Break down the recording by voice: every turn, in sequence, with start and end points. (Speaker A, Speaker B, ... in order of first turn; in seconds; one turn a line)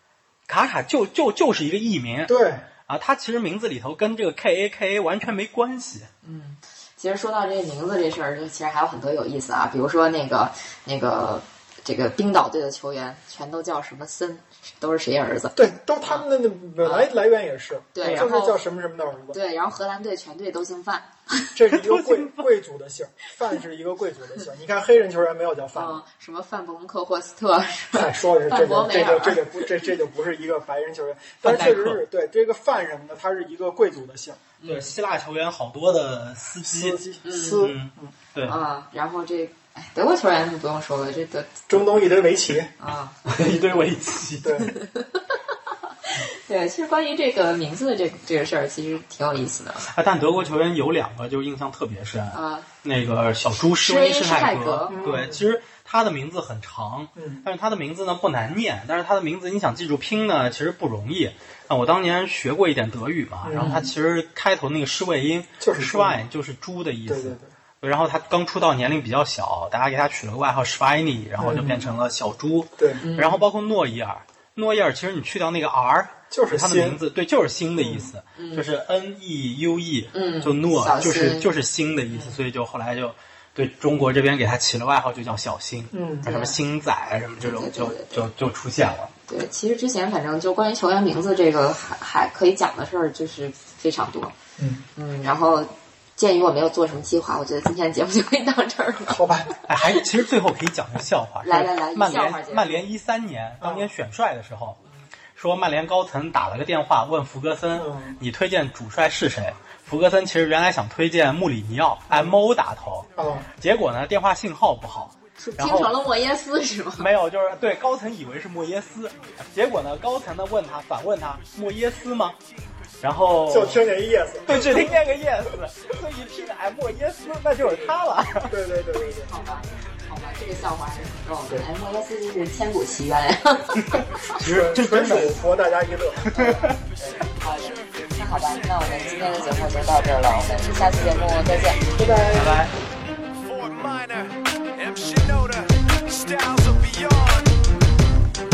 Speaker A: 0.5-6.1
Speaker B: 2.2-2.7
Speaker C: 6.2-16.2
Speaker B: 15.6-19.4
Speaker C: 16.8-17.1
Speaker C: 17.9-18.6
Speaker A: 18.0-18.3
Speaker C: 19.3-21.5
Speaker B: 21.5-26.0
Speaker A: 21.7-22.4
Speaker C: 25.8-29.7
Speaker B: 27.9-34.5
Speaker A: 31.4-32.0
Speaker C: 34.6-34.9
Speaker A: 34.6-37.0
Speaker B: 36.6-38.1
Speaker C: 37.2-37.7
Speaker A: 37.6-38.6
Speaker C: 38.5-41.6
Speaker B: 41.7-42.7
Speaker C: 42.8-43.2
Speaker A: 43.2-44.7
Speaker B: 44.4-44.7
Speaker C: 44.7-49.9
Speaker A: 49.9-89.1
Speaker C: 52.3-52.7
Speaker C: 53.8-55.0
Speaker B: 54.9-55.5
Speaker B: 57.1-57.4
Speaker B: 63.4-63.9
Speaker C: 63.6-63.8
Speaker B: 65.6-66.2
Speaker B: 67.1-67.5
Speaker B: 71.4-71.8
Speaker B: 72.8-73.0
Speaker C: 73.0-73.4
Speaker B: 76.3-77.0
Speaker B: 77.8-78.1
Speaker C: 78.3-78.7
Speaker C: 80.1-81.5
Speaker B: 85.9-86.3
Speaker C: 86.2-86.6
Speaker C: 87.4-88.2
Speaker C: 89.3-94.3
Speaker B: 94.6-94.8
Speaker C: 95.0-99.2
Speaker B: 99.1-99.5
Speaker A: 99.7-104.8
Speaker C: 101.4-102.8
Speaker B: 103.6-103.9
Speaker A: 105.3-115.9
Speaker B: 107.7-108.2
Speaker B: 112.1-112.4
Speaker B: 113.2-113.5
Speaker C: 115.4-117.1
Speaker A: 117.0-122.4
Speaker D: 117.6-118.3
Speaker D: 119.2-119.8
Speaker D: 120.9-122.5
Speaker A: 123.0-123.9
Speaker B: 123.5-124.9
Speaker D: 124.4-125.3
Speaker A: 124.5-128.5
Speaker D: 125.8-128.5
Speaker B: 128.4-129.3
Speaker C: 129.3-134.4
Speaker D: 129.3-131.0
Speaker A: 134.3-135.3
Speaker B: 134.4-136.6
Speaker D: 135.4-135.8
Speaker A: 136.2-136.7
Speaker C: 136.3-141.8
Speaker D: 136.6-142.5
Speaker A: 139.1-139.5
Speaker B: 141.9-142.6
Speaker A: 142.3-142.7
Speaker D: 143.3-147.6